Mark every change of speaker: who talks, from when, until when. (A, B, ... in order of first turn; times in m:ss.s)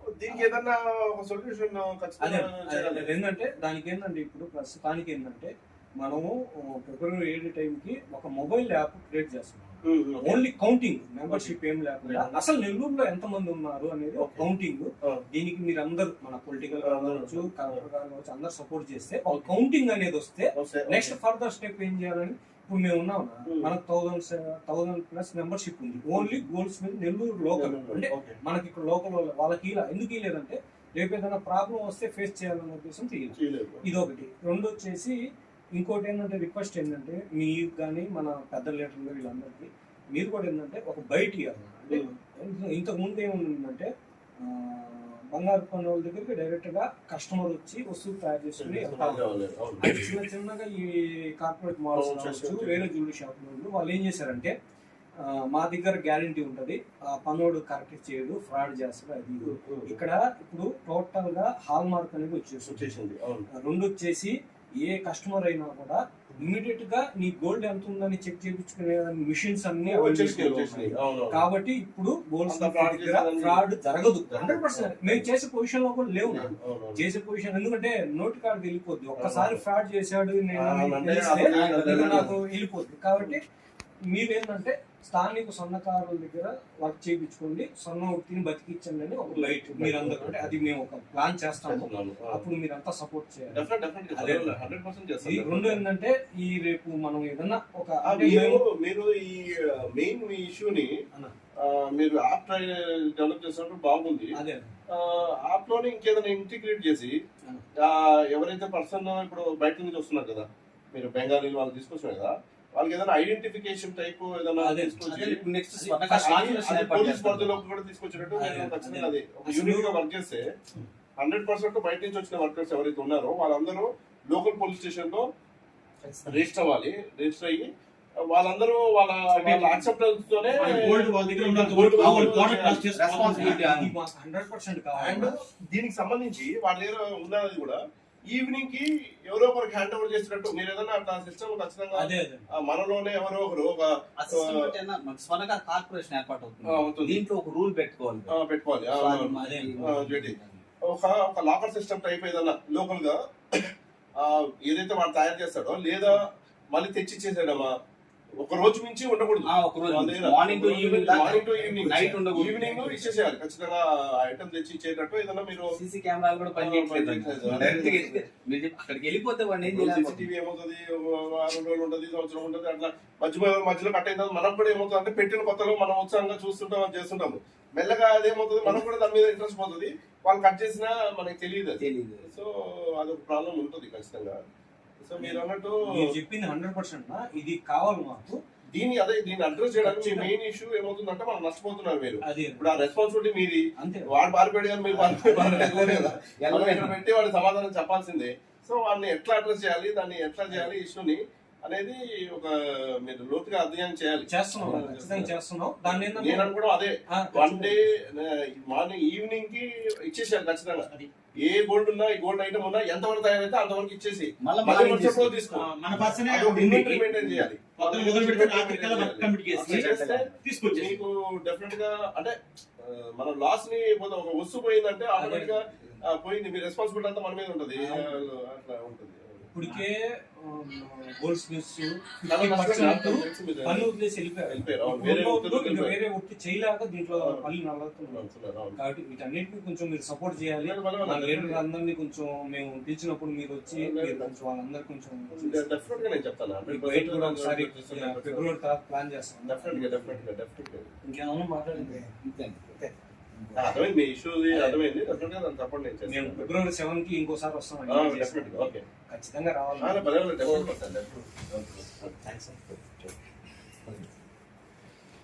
0:00.2-0:03.1 A
0:02.2-0:35.2 B
0:09.8-0:10.4 A
0:11.3-0:12.4 A
0:14.2-0:14.5 A
0:16.8-0:17.8 A
0:20.6-0:21.2 A
0:23.5-0:23.7 A
0:26.1-0:26.4 A
0:27.6-0:28.4 A
0:33.4-0:33.9 A
0:35.8-0:43.9 B
0:44.4-0:49.2 B
0:48.6-0:50.2 A
0:49.8-0:54.5 B
0:52.0-0:52.9 A
0:55.2-1:02.9 B
0:59.4-1:00.0 A
1:02.7-1:03.5 A
1:03.6-1:23.4 B
1:09.8-1:11.4 A
1:12.5-1:13.6 A
1:14.3-1:15.3 A
1:16.3-1:17.0 A
1:19.2-1:19.6 A
1:20.5-1:22.3 A
1:21.4-1:22.3 C
1:24.1-1:33.6 B
1:29.3-1:30.6 A
1:31.6-1:32.5 A
1:33.5-1:35.8 A
1:34.1-1:34.6 B
1:35.2-1:38.6 B
1:38.1-1:40.9 A
1:41.6-1:44.3 A
1:44.4-1:44.8 B
1:44.9-1:47.2 A
1:47.8-1:55.4 A
1:54.6-1:56.6 B
1:55.1-1:57.6 C
1:56.2-2:00.4 A
1:58.3-2:00.0 B
2:01.2-2:05.3 A
2:06.3-2:07.7 A
2:08.3-2:12.9 A
2:09.3-2:09.9 D
2:10.6-2:13.7 D
2:12.0-2:13.9 C
2:13.2-2:15.4 B
2:15.0-2:17.8 A
2:18.3-2:24.7 A
2:22.0-2:22.5 B
2:24.2-2:28.4 C
2:26.7-2:27.2 A
2:28.3-2:30.4 A
2:28.9-2:30.6 C
2:29.4-2:29.8 B
2:30.9-2:36.2 A
2:36.7-2:37.7 A
2:38.4-2:45.7 A
2:39.5-2:43.2 C
2:41.6-2:42.1 B
2:45.8-2:50.3 C
2:46.6-2:48.2 A
2:49.6-3:04.4 A
3:01.8-3:02.3 C
3:05.0-3:05.8 A
3:05.2-3:08.4 B
3:08.8-3:25.3 A
3:09.8-3:10.3 B
3:12.2-3:12.9 B
3:13.8-3:14.1 B
3:14.9-3:17.0 C
3:15.2-3:16.2 B
3:24.3-3:26.5 B
3:24.6-3:25.0 C
3:25.8-3:35.7 A
3:27.1-3:28.0 B
3:34.4-3:35.6 C
3:35.6-3:37.0 D
3:36.3-3:49.5 A
3:36.5-3:36.8 B
3:37.8-3:41.0 D
3:39.6-3:40.3 C
3:45.2-3:46.0 B
3:47.8-3:48.2 B
3:49.5-3:58.2 B
3:52.3-3:53.9 A
3:54.5-3:56.0 A
3:57.2-3:57.5 A
3:58.0-3:58.8 A
3:58.8-4:06.1 B
4:00.6-4:01.6 A
4:03.7-4:04.3 A
4:05.3-4:08.5 A
4:06.7-4:10.2 B
4:09.5-4:10.9 A
4:11.0-4:12.1 B
4:11.8-4:12.7 C
4:13.3-4:13.8 C
4:13.6-4:16.5 A
4:14.5-4:14.8 B
4:16.1-4:20.6 B
4:17.9-4:18.8 A
4:19.8-4:22.0 A
4:22.2-4:22.8 B